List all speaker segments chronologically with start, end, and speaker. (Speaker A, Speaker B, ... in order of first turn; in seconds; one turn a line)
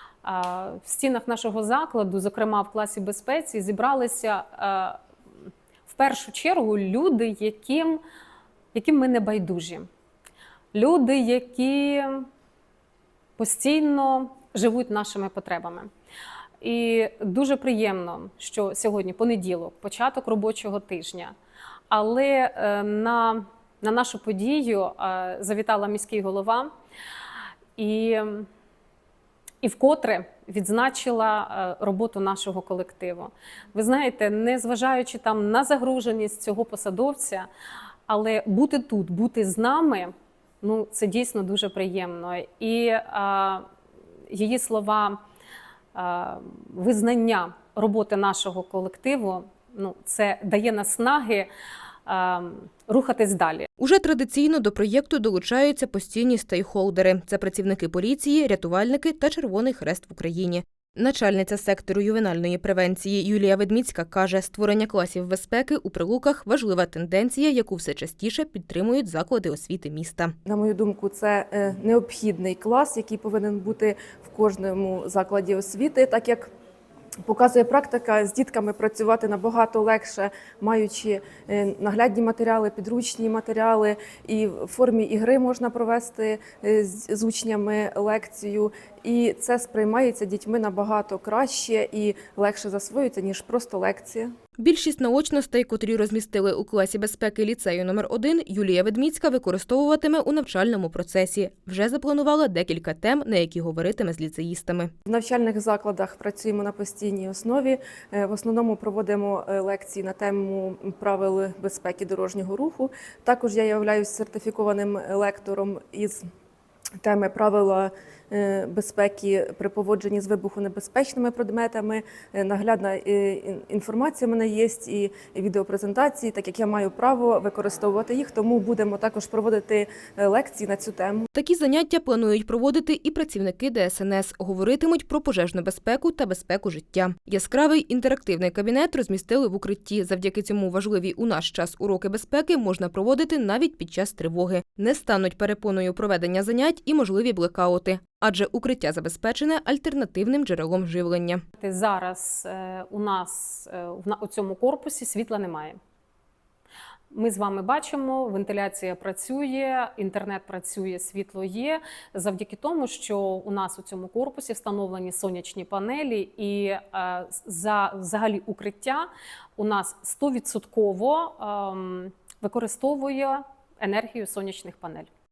Speaker A: 0.2-5.0
Speaker A: 5.9-8.0
Speaker A: 8.7-9.9
Speaker A: 10.7-12.3
Speaker A: 13.4-15.9
Speaker A: 16.6-21.3
Speaker A: 21.9-26.7
Speaker A: 27.8-28.5
Speaker A: 29.6-37.5
Speaker A: 38.1-43.7
Speaker A: 44.3-45.2
Speaker A: 45.9-51.5
Speaker A: 52.0-53.7
Speaker B: 53.8-70.3
Speaker C: 70.4-76.5
Speaker C: 77.2-94.3
Speaker B: 94.6-104.9
Speaker C: 105.1-116.2
Speaker C: 117.0-131.3
Speaker B: 131.3-151.4
Speaker A: 151.6-155.8
Speaker A: 157.1-175.1